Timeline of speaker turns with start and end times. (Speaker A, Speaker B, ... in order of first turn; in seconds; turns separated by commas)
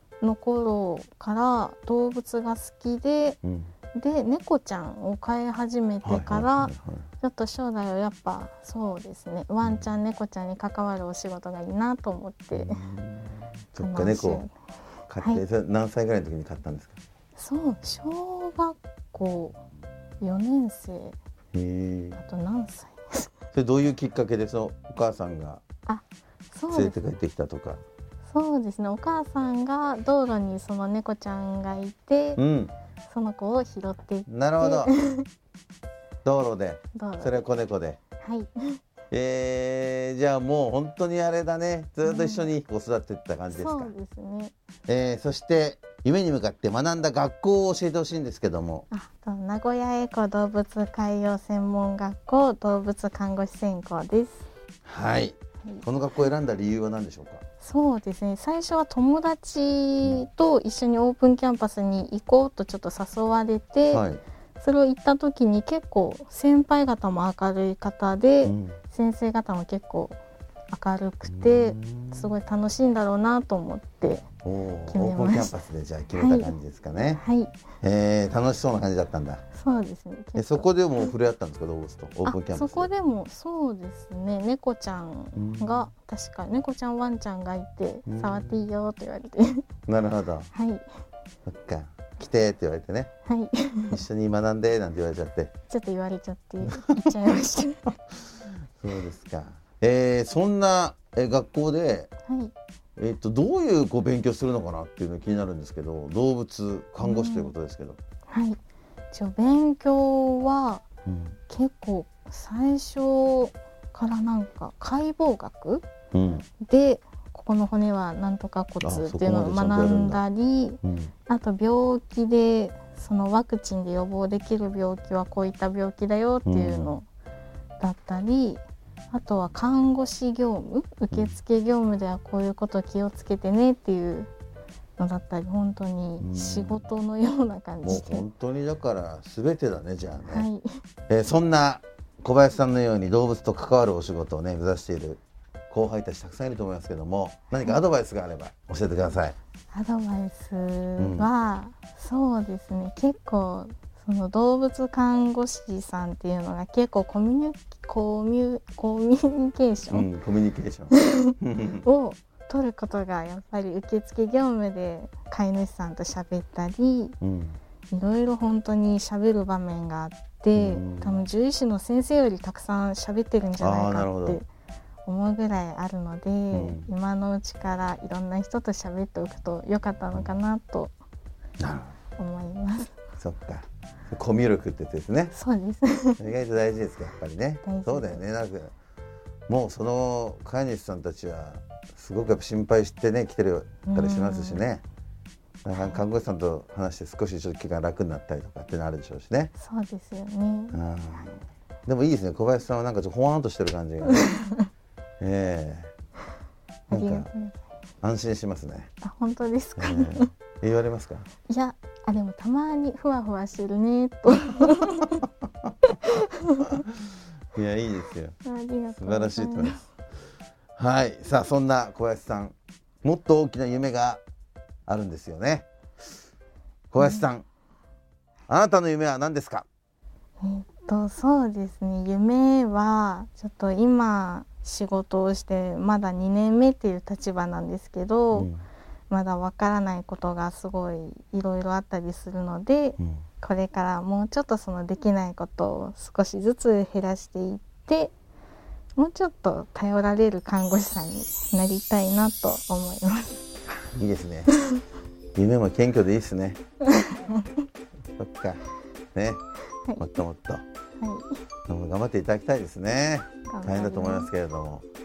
Speaker A: 0.2-3.4, Speaker B: 3.4-3.7, Speaker A: 3.9-12.8, Speaker B: 6.0-7.0, Speaker B: 12.5-14.4, Speaker A: 13.8-14.5, Speaker B: 15.1-17.0, Speaker A: 17.4-19.6, Speaker A: 20.2-21.2, Speaker B: 21.5-22.2, Speaker A: 22.1-23.3, Speaker B: 23.5-25.6, Speaker A: 25.9-27.0, Speaker B: 26.7-27.8, Speaker A: 28.3-32.4, Speaker B: 32.4-32.7, Speaker A: 33.1-35.3, Speaker B: 34.3-34.9, Speaker B: 36.2-38.0, Speaker A: 36.9-37.4, Speaker A: 38.2-38.8, Speaker B: 39.1-43.9, Speaker A: 42.0-42.5, Speaker A: 43.5-44.5, Speaker B: 44.9-48.9, Speaker A: 48.9-54.4, Speaker B: 54.9-57.4, Speaker A: 57.6-64.0, Speaker B: 63.9-64.2, Speaker A: 64.6-70.2, Speaker B: 68.4-68.8, Speaker A: 70.7-74.2, Speaker B: 71.2-72.3, Speaker B: 74.4-77.2, Speaker A: 74.9-75.5, Speaker A: 76.1-76.5, Speaker A: 77.1-77.5, Speaker B: 77.8-79.4, Speaker A: 79.5-81.1, Speaker B: 80.3-82.9, Speaker A: 82.2-89.6, Speaker B: 85.3-85.9, Speaker B: 88.1-88.6, Speaker B: 89.9-90.5, Speaker A: 90.5-90.8, Speaker B: 91.5-93.1, Speaker A: 93.2-94.0, Speaker B: 93.9-95.5, Speaker A: 95.7-97.9, Speaker B: 96.6-97.0, Speaker B: 98.8-102.1, Speaker A: 102.2-102.5, Speaker B: 103.0-108.0, Speaker A: 107.0-107.5, Speaker A: 108.3-108.6, Speaker A: 109.1-110.8, Speaker B: 111.0-111.4, Speaker A: 111.5-115.8, Speaker B: 116.1-116.5, Speaker A: 116.6-127.1, Speaker B: 118.8-120.2, Speaker B: 120.8-121.1, Speaker B: 126.4-127.0, Speaker A: 127.8-134.3, Speaker B: 131.1-131.4, Speaker A: 135.0-138.2, Speaker B: 136.2-136.8, Speaker B: 137.8-140.5, Speaker A: 140.2-140.7, Speaker B: 141.1-149.3, Speaker A: 149.7-160.1, Speaker B: 151.0-151.3, Speaker B: 159.9-161.8, Speaker A: 160.9-167.2, Speaker B: 167.2-167.6, Speaker A: 167.9-174.5, Speaker B: 170.5-171.2, Speaker B: 173.6-174.4, Speaker A: 175.0-180.9, Speaker B: 176.5-176.9, Speaker B: 181.6-181.9, Speaker A: 182.2-182.9, Speaker B: 183.2-185.3, Speaker A: 185.3-186.2, Speaker B: 186.2-188.7, Speaker A: 187.6-188.2, Speaker B: 189.5-194.8, Speaker A: 193.8-194.7, Speaker B: 195.6-199.5, Speaker A: 195.7-196.0, Speaker A: 199.6-200.8, Speaker B: 200.7-204.3, Speaker B: 205.2-205.9, Speaker A: 206.9-207.6, Speaker B: 206.9-207.3, Speaker B: 208.0-208.9, Speaker A: 209.0-210.3, Speaker B: 209.8-211.2, Speaker A: 211.5-215.2, Speaker A: 216.1-216.7, Speaker B: 217.5-218.3, Speaker A: 218.4-219.8, Speaker B: 218.9-219.8, Speaker B: 220.8-224.2, Speaker B: 224.9-225.7, Speaker B: 226.9-227.4, Speaker A: 227.0-227.2, Speaker B: 228.5-229.7, Speaker A: 230.4-238.5, Speaker B: 238.3-238.6, Speaker A: 239.1-248.1, Speaker A: 248.9-253.4, Speaker B: 253.9-254.5, Speaker B: 255.3-256.6, Speaker A: 256.9-257.5, Speaker B: 258.2-258.6, Speaker B: 259.1-259.4, Speaker B: 260.0-260.6, Speaker A: 261.0-261.3, Speaker B: 261.7-264.8, Speaker A: 263.5-264.3